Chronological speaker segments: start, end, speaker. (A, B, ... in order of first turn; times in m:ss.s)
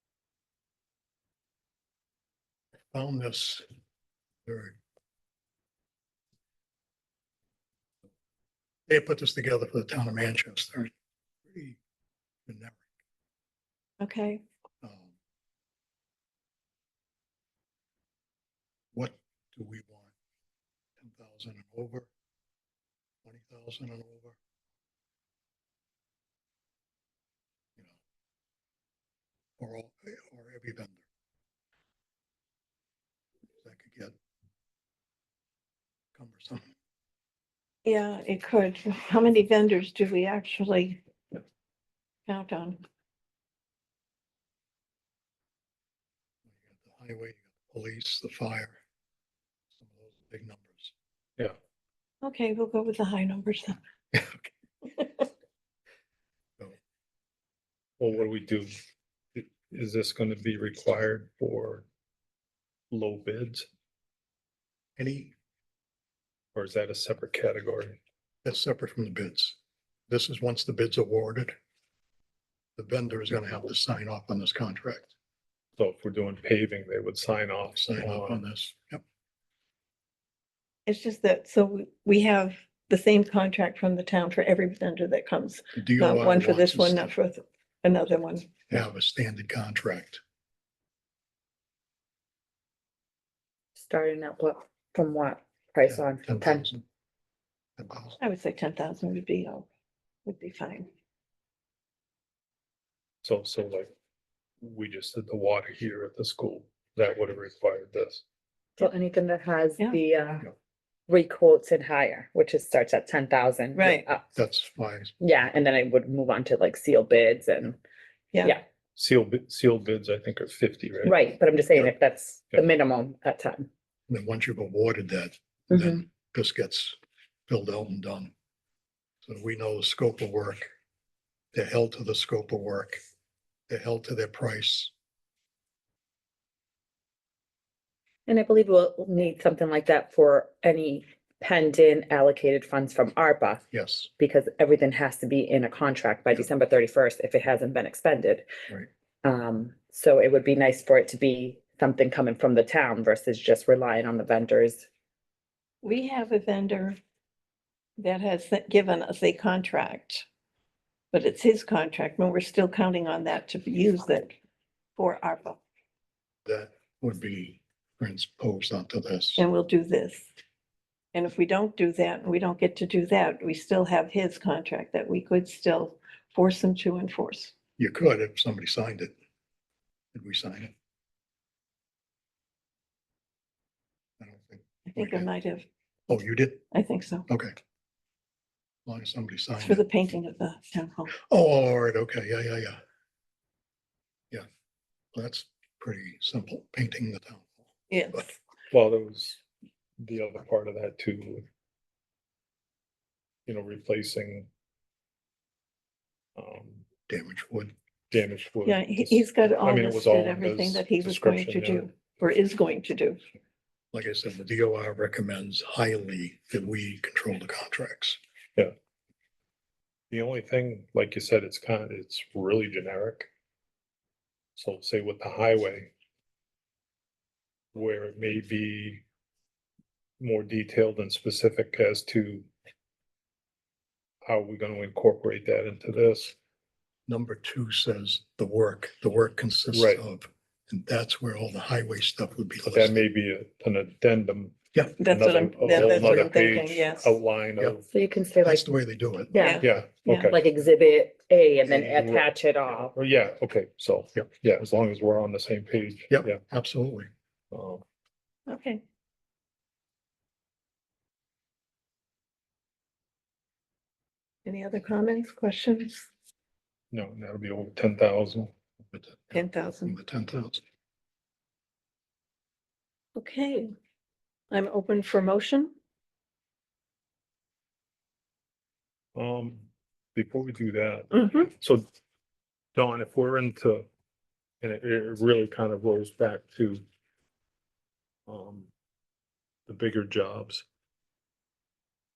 0:02.9-0:03.6 A
0:04.4-0:04.8 A
0:08.9-0:10.9 A
0:11.5-0:11.8 A
0:12.5-0:12.8 A
0:14.0-0:14.4 B
0:14.8-0:15.1 A
0:18.9-0:20.1 A
0:21.0-0:22.1 A
0:23.2-0:24.4 A
0:29.6-0:31.0 A
0:33.6-0:34.2 A
0:36.2-0:36.7 A
0:37.8-0:41.0 B
0:42.3-0:42.8 B
0:46.5-0:48.8 A
0:49.8-0:50.9 A
0:52.2-0:53.8 B
0:54.1-0:54.5 A
0:58.0-0:58.7 C
0:59.4-1:01.9 C
1:02.9-1:03.7 C
1:05.0-1:05.3 A
1:06.6-1:08.0 C
1:08.4-1:09.6 A
1:10.1-1:11.6 A
1:12.8-1:15.1 A
1:15.8-1:18.4 C
1:17.8-1:19.0 A
1:20.9-1:28.5 B
1:25.8-1:27.1 A
1:28.7-1:30.2 A
1:33.8-1:36.6 D
1:35.9-1:36.8 A
1:37.8-1:38.2 A
1:38.2-1:39.7 B
1:40.2-1:40.9 B
1:43.2-1:43.9 C
1:44.6-1:48.2 C
1:48.8-1:50.5 D
1:51.1-1:54.2 D
1:53.8-1:54.0 B
1:54.3-1:55.1 A
1:55.2-1:57.8 D
1:59.0-2:01.2 C
2:01.0-2:03.7 D
2:04.1-2:07.0 A
2:07.5-2:08.3 A
2:09.2-2:10.7 A
2:11.5-2:13.0 A
2:13.7-2:14.9 A
2:18.3-2:23.6 D
2:23.7-2:24.1 A
2:24.1-2:28.5 D
2:29.2-2:34.9 D
2:35.8-2:37.0 B
2:38.0-2:40.2 B
2:41.1-2:44.4 B
2:45.0-2:45.6 B
2:46.4-2:49.4 A
2:49.4-2:50.3 B
2:51.1-2:57.5 B
2:57.8-2:59.1 A
3:00.1-3:00.7 A
3:04.2-3:05.3 A
3:04.9-3:05.7 B
3:06.1-3:06.6 A
3:06.7-3:07.3 B
3:07.3-3:07.5 A
3:08.9-3:09.8 A
3:09.6-3:11.1 B
3:11.2-3:12.8 A
3:15.1-3:17.5 A
3:17.9-3:18.3 B
3:18.7-3:19.4 C
3:20.0-3:21.4 C
3:23.5-3:24.5 C
3:26.4-3:26.9 C
3:27.1-3:27.7 A
3:28.1-3:31.9 C
3:28.6-3:33.2 B
3:33.9-3:38.2 A
3:40.1-3:43.3 C
3:44.6-3:45.9 C
3:47.7-3:49.0 C
3:50.2-3:52.5 C
3:54.2-3:56.4 C
3:57.1-4:03.0 A
3:59.7-4:00.0 C
4:02.6-4:07.9 C
4:04.7-4:05.0 A
4:05.0-4:07.1 B
4:05.7-4:06.3 A
4:07.9-4:08.7 D
4:08.4-4:09.3 A
4:09.3-4:09.6 D
4:09.4-4:10.3 B
4:09.6-4:10.4 C
4:10.3-4:12.9 D
4:11.9-4:16.4 C
4:16.1-4:17.1 A
4:17.5-4:17.8 C
4:18.5-4:18.8 B
4:24.4-4:26.1 B
4:26.9-4:28.5 C
4:28.9-4:30.6 A
4:29.3-4:30.0 B
4:33.2-4:33.7 B
4:34.5-4:35.7 B
4:39.2-4:41.8 C
4:41.1-4:41.5 B
4:42.8-4:43.9 C
4:44.6-4:46.8 C
4:48.3-4:48.7 C
4:49.7-4:50.6 C